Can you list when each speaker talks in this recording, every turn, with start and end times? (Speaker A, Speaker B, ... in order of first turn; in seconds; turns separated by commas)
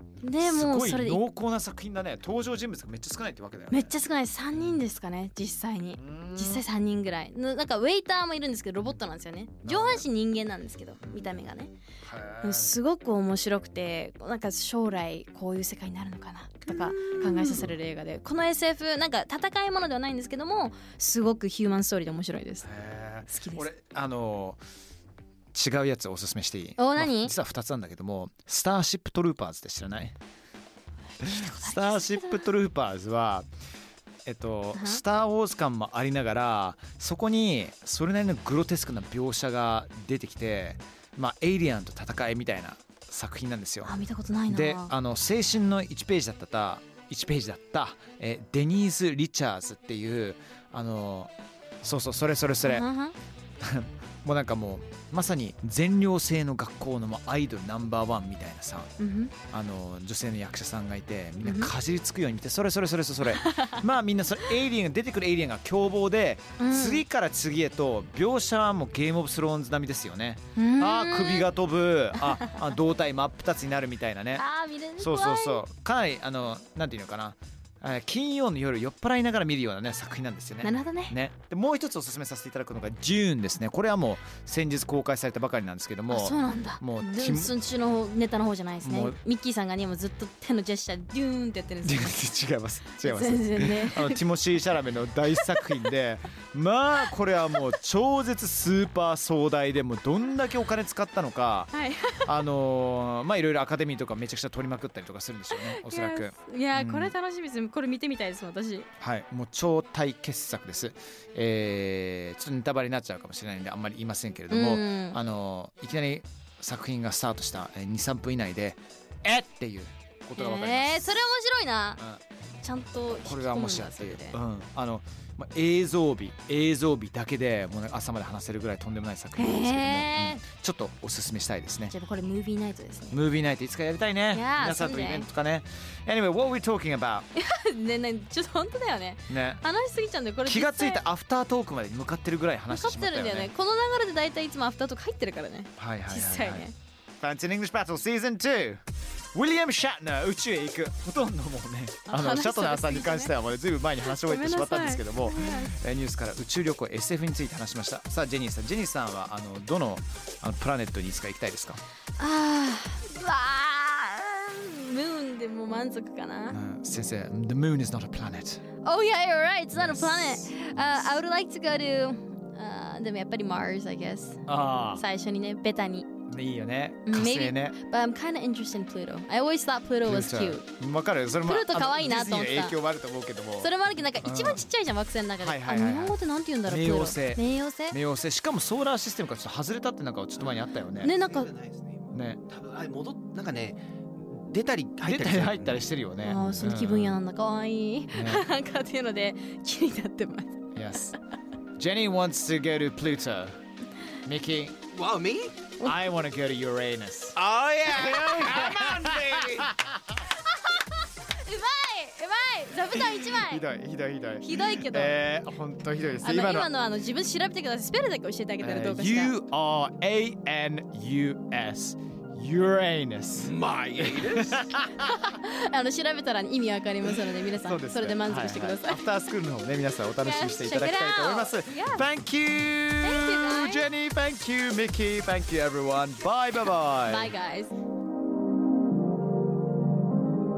Speaker A: 0.2-1.2, Speaker B: 0.4-3.9, Speaker A: 3.7-11.7, Speaker B: 6.0-6.6, Speaker B: 9.7-10.0, Speaker B: 12.0-12.7, Speaker A: 12.4-22.7, Speaker B: 16.7-17.8, Speaker B: 22.6-24.6, Speaker A: 23.3-23.7, Speaker B: 25.5-30.2, Speaker A: 26.8-27.3, Speaker A: 31.2-32.5, Speaker B: 31.2-33.5, Speaker B: 34.3-44.0, Speaker A: 34.8-35.0, Speaker A: 43.9-44.9, Speaker B: 44.5-52.9, Speaker A: 52.6-53.2, Speaker B: 53.6-58.9, Speaker A: 59.0-59.3, Speaker B: 59.5-74.4, Speaker A: 61.4-61.7, Speaker A: 63.3-63.7, Speaker A: 66.6-67.0, Speaker A: 70.6-71.5, Speaker A: 74.4-75.6, Speaker B: 75.0-87.5, Speaker A: 80.6-81.1, Speaker A: 86.1-92.3, Speaker B: 88.8-89.2, Speaker B: 91.8-101.7, Speaker A: 93.0-94.2, Speaker A: 95.4-95.7, Speaker A: 101.7-102.3, Speaker B: 102.3-107.1, Speaker A: 105.5-108.9, Speaker B: 109.0-121.2, Speaker A: 114.5-115.2, Speaker A: 120.3-122.0, Speaker A: 122.6-124.4, Speaker B: 123.2-131.9, Speaker A: 129.4-130.4, Speaker A: 131.9-133.2, Speaker B: 133.1-137.3, Speaker A: 134.3-135.3, Speaker A: 137.3-141.0, Speaker B: 139.3-139.6, Speaker B: 140.5-143.5, Speaker A: 142.7-146.7, Speaker B: 145.8-146.7, Speaker B: 147.2-148.8, Speaker B: 149.3-161.8, Speaker A: 152.1-153.3, Speaker A: 154.1-155.8, Speaker A: 162.2-166.6, Speaker B: 166.5-168.6, Speaker A: 168.8-176.1, Speaker B: 169.7-171.1, Speaker B: 174.5-175.0, Speaker B: 176.3-177.8, Speaker A: 177.1-180.7, Speaker B: 180.1-184.7, Speaker A: 181.4-182.8, Speaker A: 183.6-188.0, Speaker B: 185.4-191.1, Speaker A: 191.0-191.5, Speaker C: 191.1-195.8, Speaker B: 192.1-192.4, Speaker B: 195.0-197.2, Speaker A: 196.2-200.6, Speaker B: 198.1-198.4, Speaker B: 200.8-201.2, Speaker B: 201.8-203.6, Speaker B: 204.2-204.8, Speaker C: 204.9-205.6, Speaker B: 205.8-209.7, Speaker C: 207.9-209.7, Speaker A: 210.6-213.6, Speaker B: 212.9-216.7, Speaker A: 214.4-215.2, Speaker A: 216.2-219.3, Speaker B: 218.6-225.1, Speaker C: 223.4-224.6, Speaker A: 225.0-229.0, Speaker B: 227.6-237.3, Speaker A: 230.1-232.1, Speaker A: 233.0-233.9, Speaker A: 237.0-237.7